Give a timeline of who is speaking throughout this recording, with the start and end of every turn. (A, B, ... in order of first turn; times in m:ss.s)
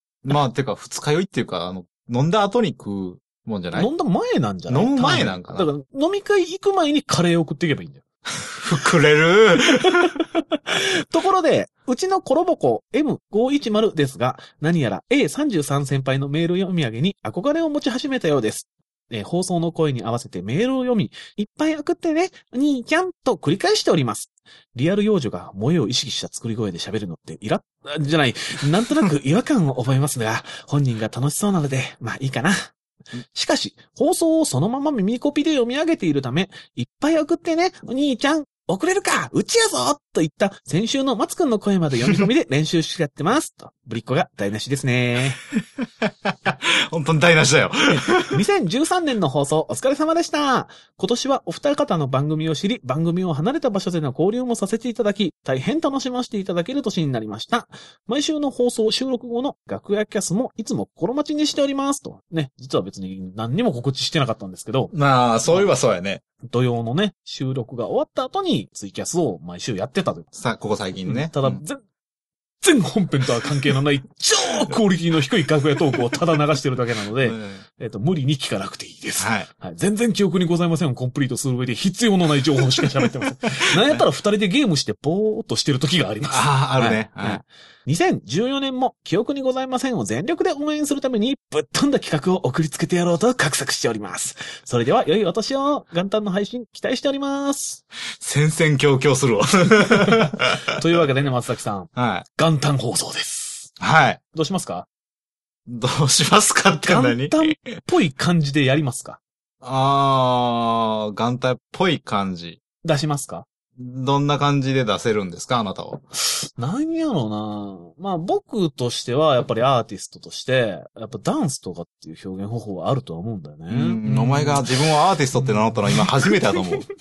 0:00.2-0:03.9 A
0:03.7-0:08.0 B
0:04.7-0:05.7 A
0:08.5-0:10.1 A
0:09.7-0:32.7 B
0:33.3-0:45.4 B
0:45.5-0:48.4 A
0:47.9-1:04.9 B
1:04.9-1:06.2 A
1:06.4-1:10.3 B
1:10.4-1:11.6 A
1:11.0-1:11.8 B
1:12.6-1:37.8 B
1:17.2-1:17.6 A
1:19.2-1:19.5 A
1:23.6-1:24.0 A
1:26.3-1:27.4 A
1:38.2-1:40.6 A
1:40.0-1:43.7 B
1:41.9-1:42.2 A
1:43.8-1:44.2 A
1:44.3-1:44.9 B
1:45.7-1:47.8 A
1:46.8-1:49.2 B
1:49.6-1:52.6 A
1:52.8-1:53.4 B
1:53.8-1:56.0 A
1:56.6-2:04.8 B
2:03.7-2:06.9 A
2:05.3-2:06.6 B